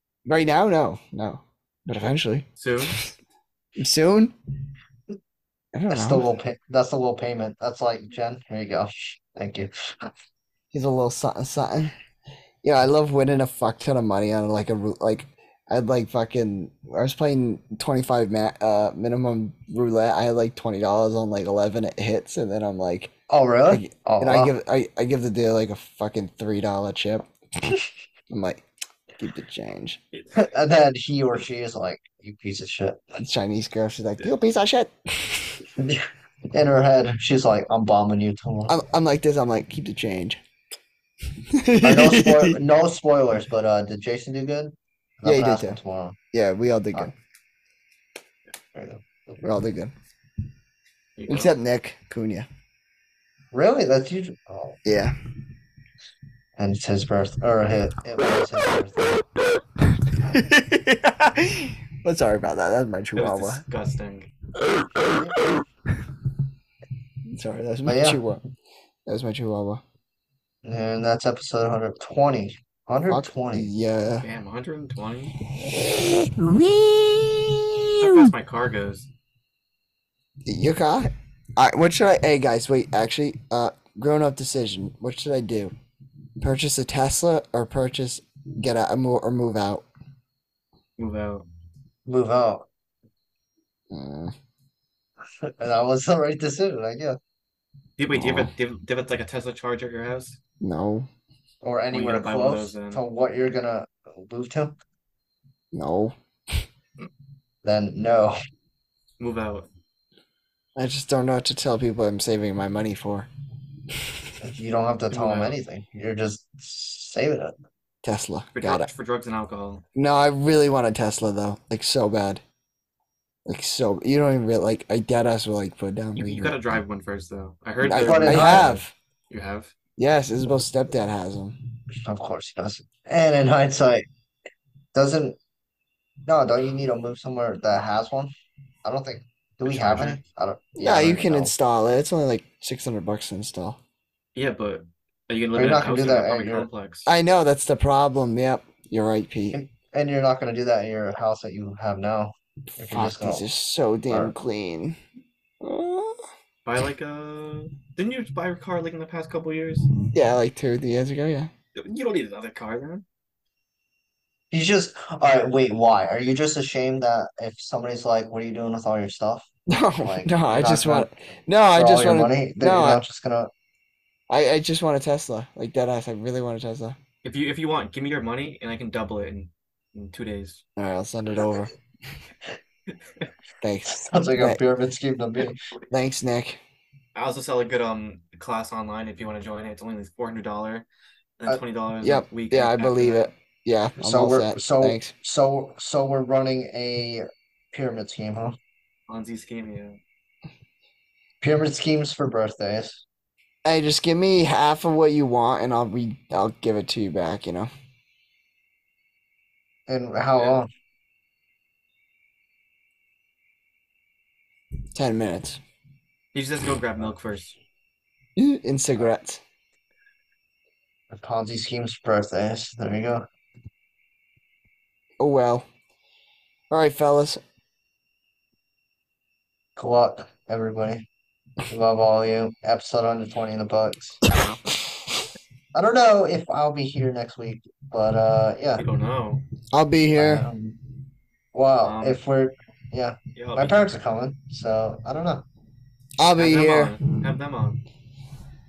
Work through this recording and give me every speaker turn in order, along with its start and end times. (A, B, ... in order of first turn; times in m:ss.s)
0:00.2-0:02.9 A
0:02.6-0:03.0 B
0:03.8-0:04.3 A
0:05.7-0:06.3 A
0:05.9-0:10.1 C
0:10.7-0:11.9 A
0:12.6-0:23.1 A
0:23.3-0:24.5 C
0:23.7-0:27.7 A
0:28.3-0:28.6 A
0:29.2-0:30.0 A
0:30.3-0:33.0 C
0:33.2-0:35.7 A
0:35.8-0:38.8 C
0:38.7-0:40.4 A
0:41.3-0:42.6 A
0:41.8-0:46.2 C
0:45.2-0:45.8 A
0:46.3-0:47.1 A
0:48.7-0:49.4 C
0:49.4-0:49.9 A
0:51.2-0:51.5 B
0:51.3-0:52.5 A
0:53.5-0:54.8 C
0:54.8-0:55.1 A
0:56.6-0:59.2 C
0:59.8-1:03.6 A
1:03.2-1:04.3 B
1:04.6-1:06.0 A
1:07.3-1:08.4 A
1:07.8-1:08.2 C
1:09.0-1:09.8 A
1:10.6-1:13.7 C
1:13.1-1:14.2 A
1:14.2-1:15.3 B
1:15.6-1:18.3 A
1:18.0-1:19.1 B
1:20.4-1:25.7 A
1:26.4-1:29.8 A
1:31.0-1:31.4 B
1:32.0-1:32.7 C
1:33.9-1:34.3 A
1:35.4-1:37.2 C
1:38.0-1:40.4 B
1:38.1-1:38.5 A
1:40.6-1:41.1 A
1:41.6-1:44.8 C
1:41.9-1:43.0 B
1:45.7-1:46.6 A
1:47.6-1:48.4 C
1:49.2-1:49.7 B
1:50.8-1:53.3 A
1:53.9-1:54.2 A
1:54.4-1:57.5 C
1:55.1-1:55.6 B
1:58.0-1:58.9 A
1:58.5-1:59.8 B
2:00.0-2:02.4 A
2:03.4-2:06.6 A
2:06.2-2:09.7 B
2:07.8-2:08.9 A
2:08.0-2:08.7 C
2:10.0-2:11.6 A
2:12.0-2:14.0 C
2:14.9-2:15.4 C
2:16.2-2:18.3 C
2:18.8-2:21.5 C
2:19.6-2:20.2 B
2:20.8-2:23.8 A
2:24.3-2:27.1 B
2:25.6-2:26.7 C
2:27.0-2:29.6 A
2:29.5-2:33.4 C
2:32.7-2:35.0 A
2:35.6-2:36.3 A
2:36.6-2:39.9 B
2:40.1-2:41.5 A
2:41.7-2:43.0 B
2:44.5-2:49.5 C
2:49.7-2:53.0 A
2:50.0-2:51.1 C
2:51.7-2:53.5 C
2:54.3-2:57.0 A
2:57.2-3:00.6 B
3:00.8-3:01.7 A
3:03.6-3:04.6 A
3:03.9-3:05.6 C
3:05.9-3:06.6 A
3:07.1-3:10.9 B
3:11.4-3:13.3 B
3:12.0-3:15.1 A
3:14.0-3:18.6 C
3:19.1-3:20.0 B
3:21.4-3:23.0 C
3:23.6-3:27.7 A
3:29.9-3:30.7 C
3:34.9-3:35.6 A
3:36.3-3:37.6 B
3:38.4-3:39.4 A
3:41.1-3:43.2 C
3:45.2-3:45.7 A
3:46.7-3:47.4 A
3:49.8-3:51.1 C
3:51.7-3:54.2 C
3:54.3-3:54.8 B
3:55.7-3:58.8 C
3:58.8-3:59.4 B
3:59.7-4:00.4 A
4:00.1-4:00.8 C
4:01.5-4:05.4 C
4:01.8-4:02.2 B
4:03.3-4:03.9 B
4:06.2-4:07.0 A
4:06.4-4:07.8 B